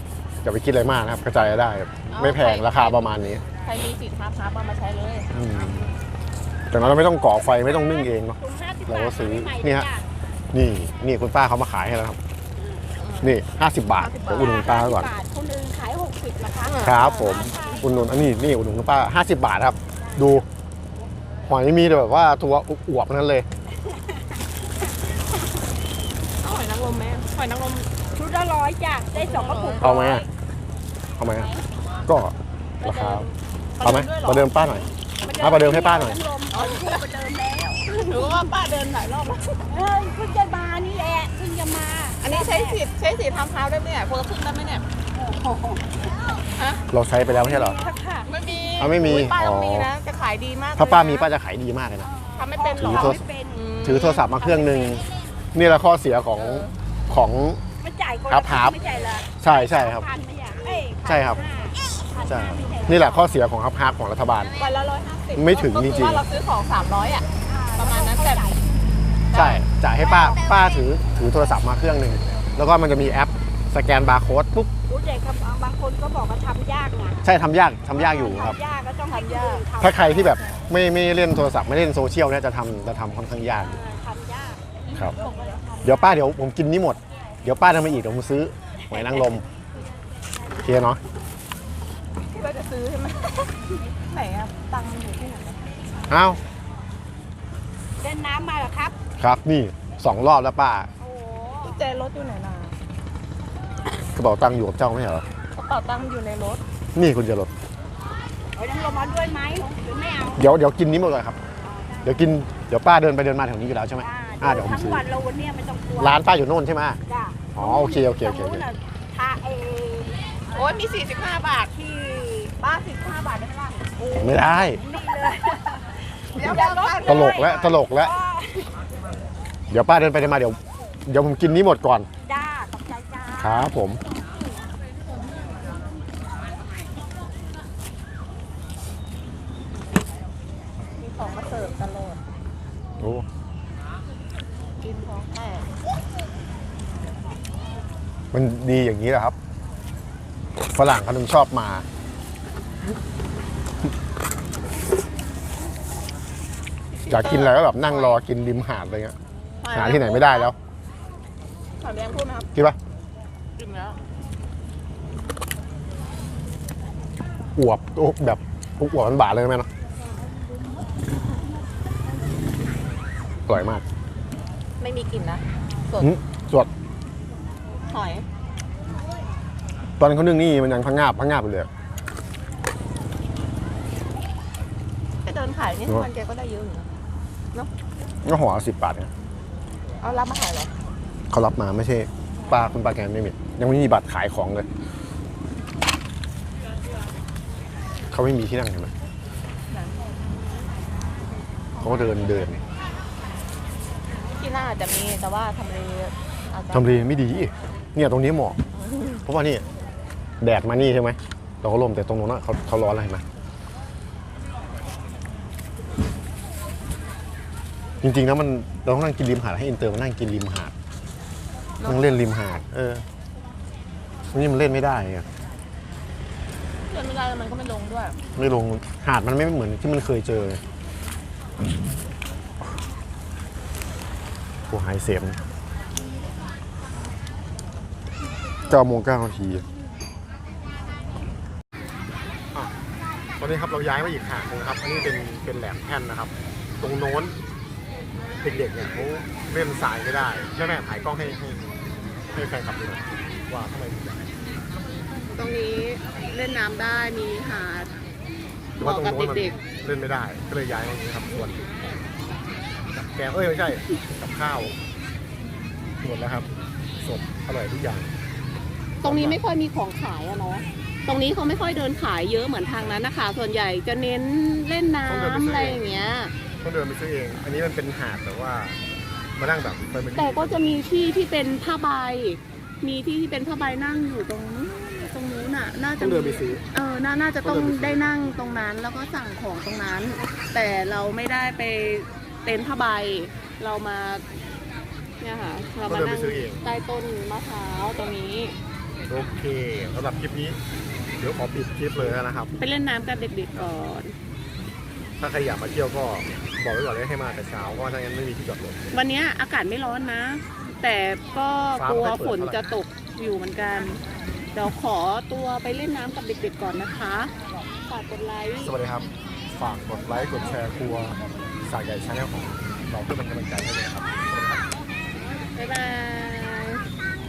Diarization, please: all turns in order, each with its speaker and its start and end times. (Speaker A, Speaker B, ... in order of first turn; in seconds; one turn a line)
Speaker A: 0.4-3.4
Speaker B: 2.1-3.0
Speaker B: 3.6-5.3
Speaker A: 5.3-5.9
Speaker A: 6.7-9.9
Speaker C: 7.5-10.1
Speaker A: 10.5-12.2
Speaker B: 12.9-13.4
Speaker A: 13.2-15.1
Speaker B: 13.9-14.6
Speaker C: 14.3-18.0
Speaker B: 16.6-17.8
Speaker A: 16.8-20.4
Speaker C: 20.0-20.4
Speaker A: 21.4-23.4
Speaker C: 23.8-24.2
Speaker B: 26.4-27.9
Speaker C: 28.1-30.3
Speaker B: 29.1-29.9
Speaker A: 29.8-30.2
Speaker A: 31.2-31.5
Speaker C: 31.3-31.6
Speaker A: 32.0-33.3
Speaker C: 32.8-33.2
Speaker B: 33.8-34.5
Speaker A: 33.8-34.9
Speaker C: 35.2-38.4
Speaker A: 35.4-36.2
Speaker B: 36.5-37.0
Speaker B: 37.9-39.6
Speaker C: 39.7-42.8
Speaker B: 42.2-44.8
Speaker C: 45.3-45.9
Speaker B: 46.5-46.8
Speaker A: 46.9-47.8
Speaker C: 47.3-48.3
Speaker B: 48.3-51.3
Speaker A: 48.8-49.9
Speaker A: 50.8-52.1
Speaker C: 52.0-53.6
Speaker B: 52.4-54.3
Speaker A: 52.8-53.2
Speaker A: 53.8-57.6
Speaker C: 54.4-55.0
Speaker B: 56.4-56.7
Speaker C: 57.8-63.2
Speaker A: 58.3-58.8
Speaker A: 59.4-60.0
Speaker A: 61.0-61.4
Speaker A: 62.2-64.5
Speaker B: 64.6-68.4
Speaker A: 65.3-66.2
Speaker C: 67.4-69.0
Speaker B: 69.3-69.6
Speaker A: 69.3-74.7
Speaker C: 70.0-70.8
Speaker C: 74.9-77.3
Speaker A: 77.2-78.6
Speaker C: 77.9-80.4
Speaker B: 79.1-79.6
Speaker A: 79.8-83.8
Speaker C: 83.5-84.6
Speaker A: 85.8-89.4
Speaker C: 88.9-89.4
Speaker A: 90.6-91.0
Speaker B: 92.3-95.6
Speaker A: 96.1-96.4
Speaker C: 98.0-99.0
Speaker A: 99.2-100.9
Speaker C: 101.0-101.8
Speaker B: 101.6-102.8
Speaker A: 104.1-105.2
Speaker B: 105.5-106.6
Speaker A: 106.9-107.5
Speaker C: 108.5-110.4
Speaker A: 110.3-111.4
Speaker C: 111.6-112.1
Speaker A: 112.0-115.0
Speaker C: 114.0-116.2
Speaker A: 116.0-117.0
Speaker C: 117.1-120.8
Speaker A: 117.5-118.7
Speaker B: 120.5-121.7
Speaker C: 121.7-122.5
Speaker B: 122.6-123.9
Speaker C: 124.0-128.7
Speaker A: 124.2-124.8
Speaker B: 126.3-127.5
Speaker A: 127.0-128.1
Speaker A: 129.7-132.1
Speaker C: 132.2-133.7
Speaker A: 133.4-134.0
Speaker B: 141.0-142.2
Speaker A: 143.0-143.2
Speaker B: 144.8-145.7
Speaker A: 148.3-149.3
Speaker A: 150.7-151.8
Speaker B: 156.9-158.2
Speaker A: 157.1-159.2
Speaker B: 159.6-160.5
Speaker A: 159.7-160.5
Speaker B: 161.8-162.5
Speaker B: 163.6-164.0
Speaker A: 167.5-169.7
Speaker A: 173.5-173.8
Speaker B: 174.8-176.1
Speaker A: 176.0-176.7
Speaker B: 177.8-178.2
Speaker A: 180.0-181.7
Speaker B: 185.2-186.9
Speaker A: 188.2-189.1
Speaker B: 190.0-190.7
Speaker A: 191.3-194.7
Speaker A: 198.1-198.9
Speaker B: 199.7-199.9
Speaker A: 201.8-202.6
Speaker B: 204.2-207.0
Speaker A: 206.7-208.6
Speaker B: 208.7-209.2
Speaker A: 209.2-209.6
Speaker A: 210.4-213.2
Speaker A: 218.0-220.7
Speaker B: 221.8-222.1
Speaker A: 221.8-223.0
Speaker A: 224.3-225.3
Speaker B: 226.9-228.2
Speaker A: 228.3-230.6
Speaker A: 234.7-235.4
Speaker A: 238.7-239.7
Speaker A: 243.4-247.3
Speaker A: 248.4-251.7
Speaker A: 252.3-254.2
Speaker B: 255.3-257.9
Speaker B: 258.8-259.6
Speaker A: 258.8-261.6
Speaker B: 261.4-262.0
Speaker A: 262.9-264.7
Speaker A: 266.0-266.5
Speaker A: 267.0-268.1
Speaker B: 269.0-276.3
Speaker A: 269.0-269.4
Speaker A: 275.1-275.8
Speaker A: 276.6-278.8
Speaker A: 279.4-280.8
Speaker B: 280.1-294.2
Speaker A: 286.0-286.6
Speaker A: 287.4-288.0
Speaker B: 295.2-298.6
Speaker A: 295.8-296.6
Speaker A: 299.1-300.6
Speaker A: 301.2-302.5
Speaker B: 302.6-304.1
Speaker A: 305.2-308.8
Speaker B: 308.9-314.0
Speaker A: 311.8-312.8
Speaker B: 314.5-317.3
Speaker B: 317.9-318.7
Speaker A: 318.6-324.6
Speaker B: 325.5-326.8